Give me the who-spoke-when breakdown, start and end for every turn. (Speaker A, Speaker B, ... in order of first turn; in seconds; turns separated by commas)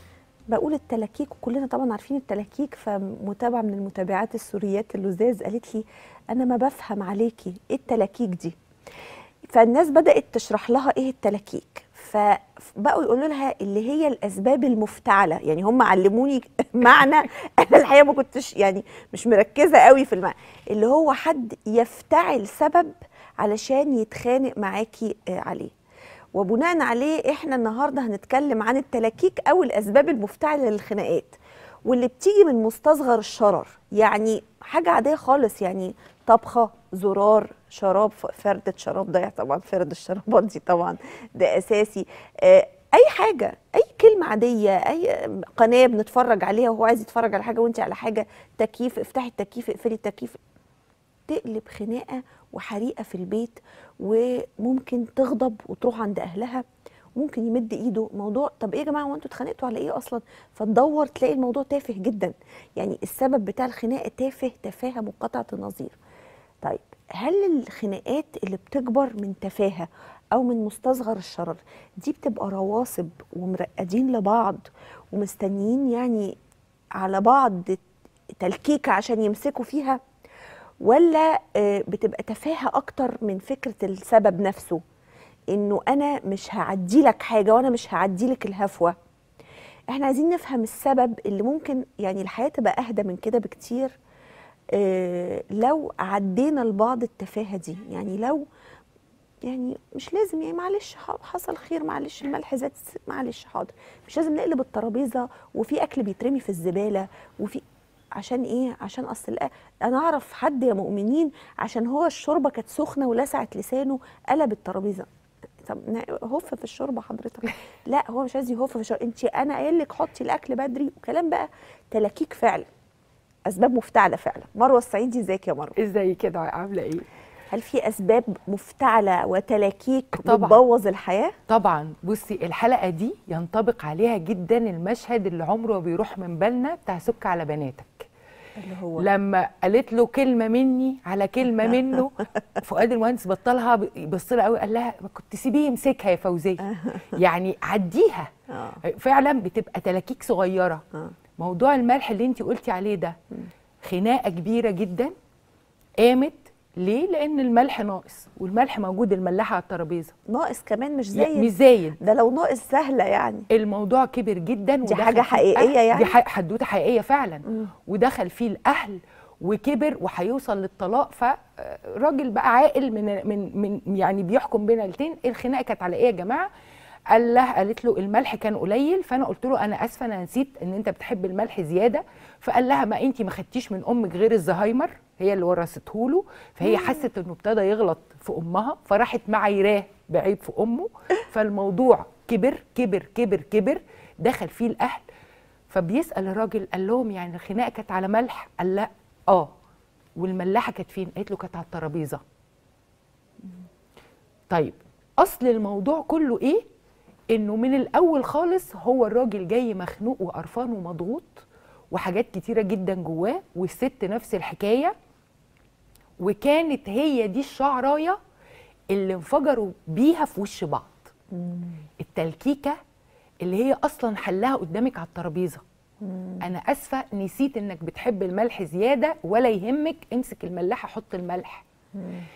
Speaker A: 0.5-8.6, Speaker A: 9.5-25.7, Speaker A: 26.4-50.4, Speaker A: 51.3-56.6, Speaker A: 57.2-66.0, Speaker A: 66.6-76.3, Speaker A: 77.0-77.8, Speaker A: 78.4-80.0, Speaker A: 80.8-84.8, Speaker A: 85.5-89.0, Speaker A: 89.9-94.0, Speaker A: 94.8-98.5, Speaker A: 99.5-107.6, Speaker A: 108.2-115.1, Speaker A: 115.6-122.7, Speaker A: 123.5-125.8, Speaker B: 125.8-127.1, Speaker A: 127.5-131.3, Speaker B: 130.1-130.6, Speaker B: 131.5-138.1, Speaker A: 138.6-139.1, Speaker B: 139.0-148.3, Speaker A: 146.7-147.1, Speaker A: 148.5-148.8, Speaker B: 148.8-150.8, Speaker B: 151.4-153.2, Speaker B: 153.8-155.1, Speaker B: 156.0-160.1, Speaker A: 160.3-163.5, Speaker B: 161.2-162.0, Speaker B: 163.5-176.5, Speaker A: 164.9-166.2, Speaker B: 177.1-195.1, Speaker B: 195.7-199.5, Speaker B: 200.2-202.2, Speaker B: 204.5-206.6, Speaker B: 207.3-214.9, Speaker B: 216.2-218.2, Speaker B: 218.9-221.1, Speaker A: 221.3-221.8, Speaker B: 222.0-222.8, Speaker B: 223.4-225.6, Speaker A: 226.0-226.4, Speaker B: 226.4-231.7, Speaker A: 232.0-232.3